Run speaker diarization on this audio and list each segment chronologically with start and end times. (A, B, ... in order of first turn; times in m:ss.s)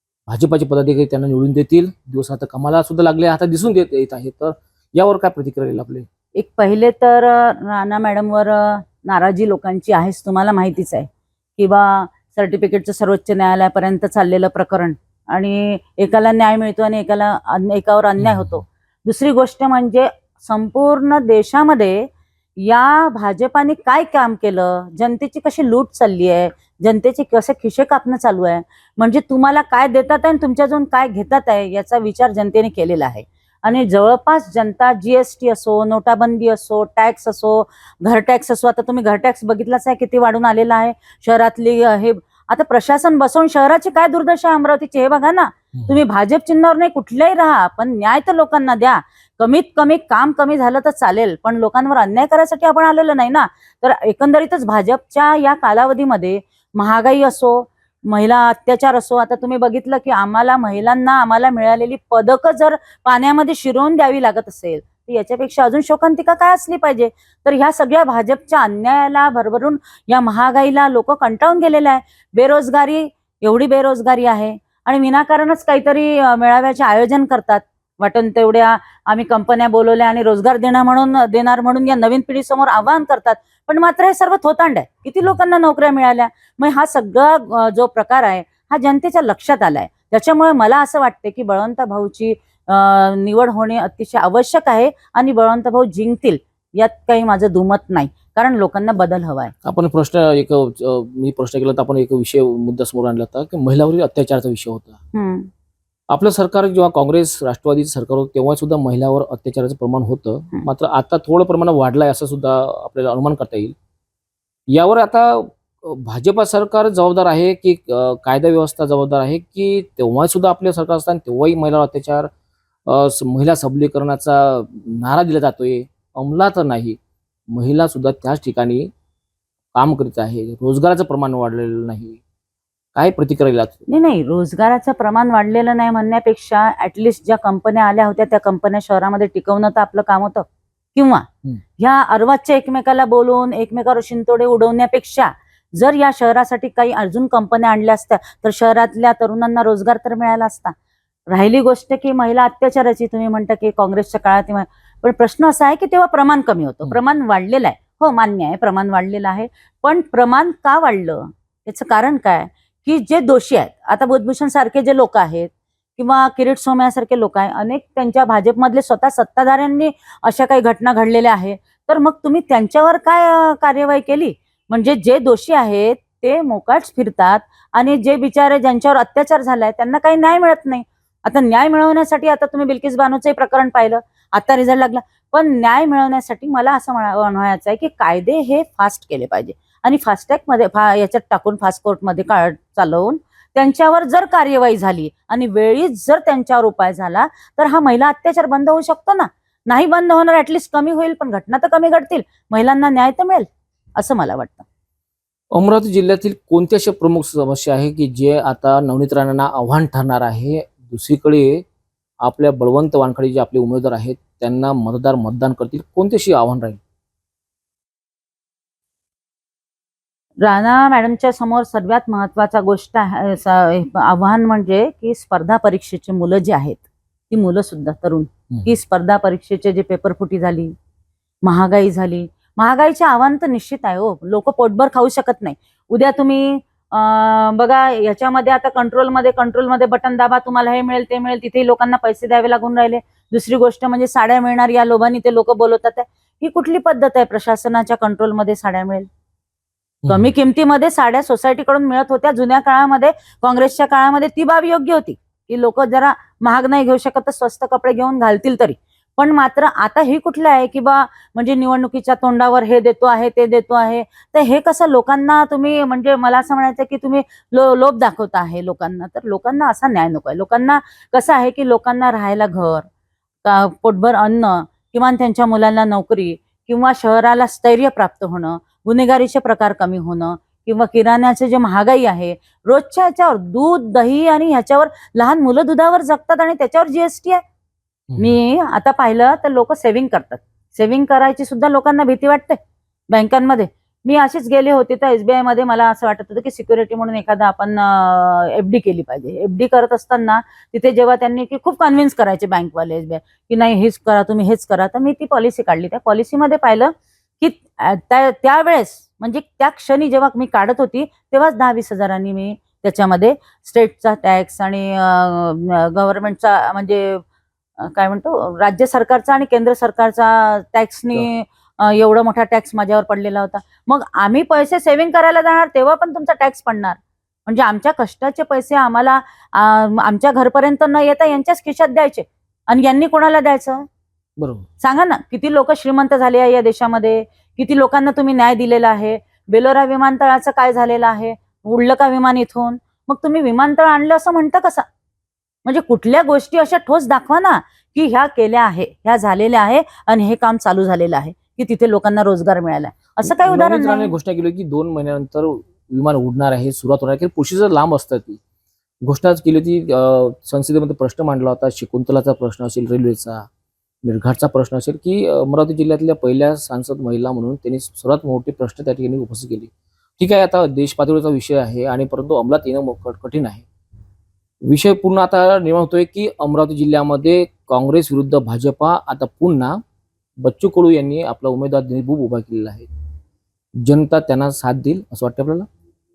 0:00.3-0:06.1 A
0:06.4-1:39.5 B
1:39.6-1:45.0 A
1:45.1-1:45.5 B
1:46.1-1:53.7 A
1:54.7-2:02.3 A
2:02.8-2:07.0 A
2:07.5-2:08.9 A
2:09.7-2:12.2 A
2:12.9-2:13.9 A
2:13.9-2:21.2 B
2:21.8-2:30.7 B
2:31.3-3:24.6 B
3:25.5-3:31.6 A
3:32.2-3:36.8 A
3:40.4-3:50.7 B
3:51.4-4:09.1 B
4:10.0-4:10.3 A
4:10.1-4:32.9 B
4:33.4-4:47.4 B
4:48.1-4:48.3 A
4:48.2-4:52.6 B
4:53.1-5:17.2 B
5:17.8-5:33.8 B
5:34.4-5:34.7 A
5:34.8-5:44.8 B
5:45.6-5:54.1 B
5:53.3-5:58.4 A
5:59.0-6:03.5 A
6:04.0-6:13.6 A
6:14.6-6:19.8 A
6:20.4-6:22.9 A
6:23.8-6:25.7 A